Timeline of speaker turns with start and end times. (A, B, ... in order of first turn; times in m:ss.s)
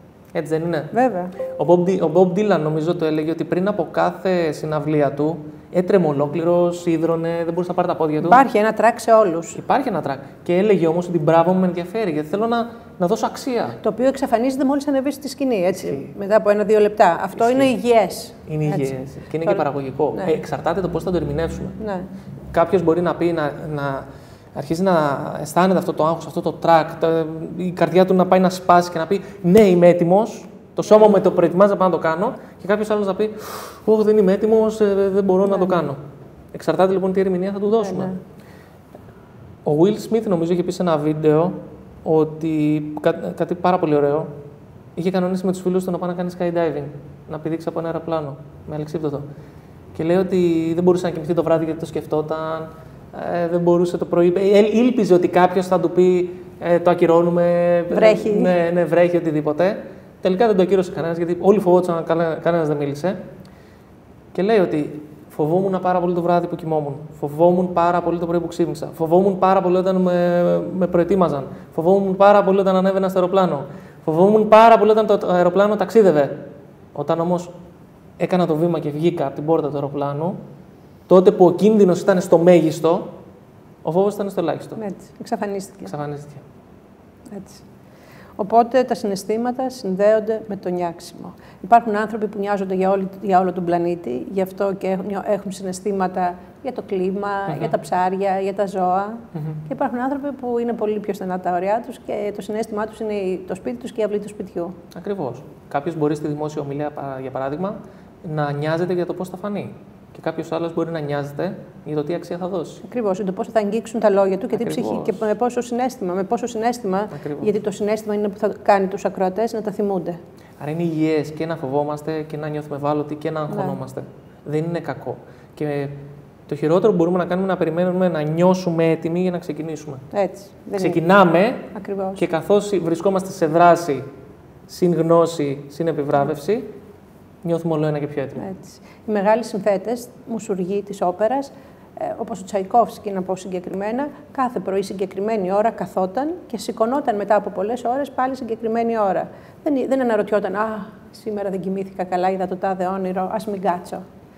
0:00.3-0:00.9 A
0:00.9-0:01.3 B
0:01.4-0:08.4 A
0:08.2-0:09.6 B
0:09.6-0:13.8 A
0:13.8-0:20.4 B
0:15.7-0:16.1 A
0:17.3-0:17.7 A
0:18.5-0:21.8 A
0:21.8-0:22.1 B
0:22.5-0:36.0 A
0:36.5-0:38.2 A
0:37.8-0:38.2 B
0:39.6-0:44.3 A
0:45.0-0:49.2 A
0:49.9-1:03.2 A
0:57.9-0:58.5 B
1:04.3-1:17.5 A
1:18.2-1:20.4 A
1:21.1-1:23.1 A
1:23.8-1:24.8 A
1:24.8-1:25.9 B
1:25.8-1:26.4 A
1:27.3-1:27.6 B
1:28.4-1:44.8 B
1:37.5-1:37.7 A
1:44.9-1:52.8 A
1:52.8-2:00.2 B
1:54.5-1:55.3 A
1:57.1-1:57.5 A
2:00.6-2:05.9 A
2:03.5-2:03.8 B
2:06.5-2:10.0 A
2:10.1-2:11.0 B
2:10.8-2:14.0 A
2:11.7-2:12.2 B
2:14.7-2:16.7 A
2:17.4-2:18.4 A
2:18.4-2:34.0 B